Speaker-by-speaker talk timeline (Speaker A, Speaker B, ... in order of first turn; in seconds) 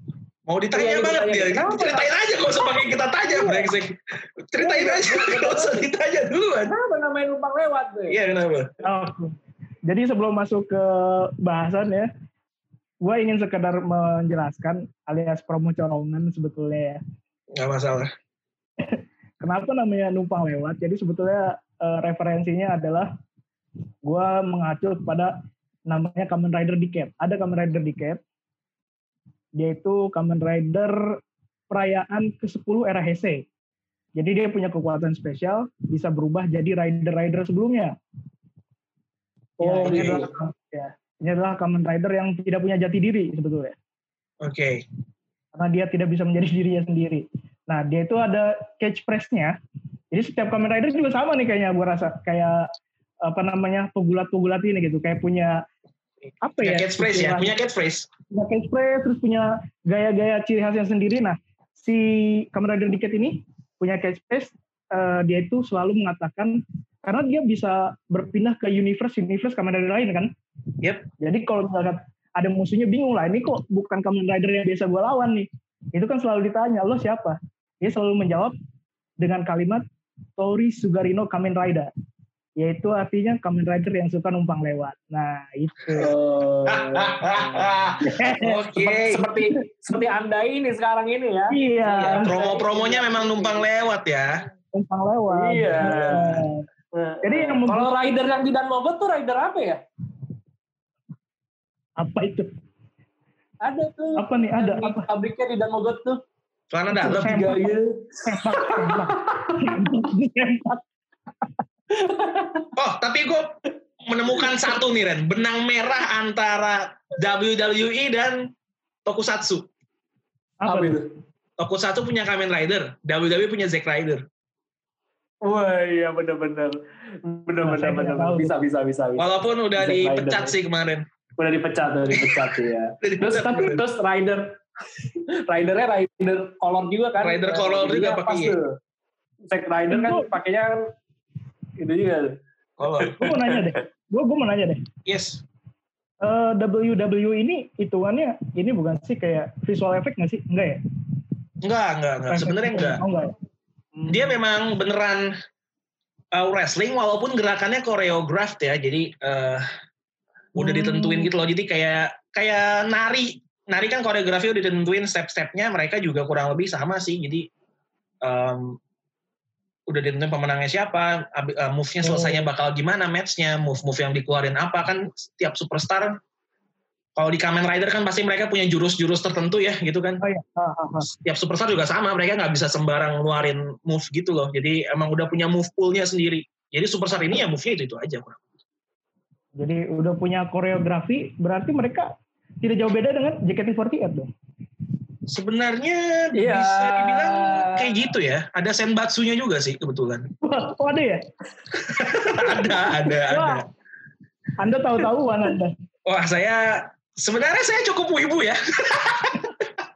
Speaker A: 0.5-6.8, 8.1-8.7, 17.6-18.1, 39.8-40.2, 44.4-44.9, 56.6-58.1, 70.8-71.1, 86.7-89.3, 91.8-94.4, 106.7-107.4, 112.8-113.5, 114.0-118.5, 119.1-119.7, 121.6-124.2, 129.2-131.1, 132.1-132.5, 133.0-133.8, 137.2-138.6, 142.8-143.2, 145.1-145.4, 151.6-153.0, 154.1-155.3, 156.3-159.7, 160.6-167.5, 168.2-168.8, 169.9-176.2, 177.2-180.2, 181.0-188.4, 195.3-200.3, 202.0-203.7, 206.1-209.6
Speaker B: 0.7-2.1, 4.6-5.8, 6.7-8.2, 39.6-40.3, 86.0-87.7, 88.8-93.7, 95.3-99.8, 103.6-106.2, 107.0-109.8, 112.0-112.7, 120.7-121.1, 125.4-130.6, 131.4-134.6, 135.5-138.8, 139.5-140.9, 141.8-142.4, 143.0-143.7, 196.4-198.1
Speaker C: 3.3-3.7, 8.8-12.1, 13.0-17.0, 18.8-23.1, 24.0-25.4, 25.9-28.2, 29.6-31.0, 31.7-33.5, 34.2-37.9, 39.6-43.8, 45.5-49.6, 50.1-52.7, 53.2-55.6, 56.4-57.6, 58.3-70.3, 71.2-78.5, 79.2-79.8, 80.4-81.9, 82.6-86.1, 88.0-88.6, 91.5-92.3, 94.7-96.7, 97.2-97.9, 102.0-102.5, 104.2-105.1, 106.9-107.7, 108.3-110.8, 120.6-121.0, 127.6-128.5, 139.9-140.3, 143.2-144.8, 146.2-150.8, 152.3-153.3, 153.9-154.3, 160.6-161.3, 172.0-172.4, 180.2-181.1, 189.6-194.3, 200.4-201.2, 202.0-202.5, 203.1-203.6, 204.6-205.7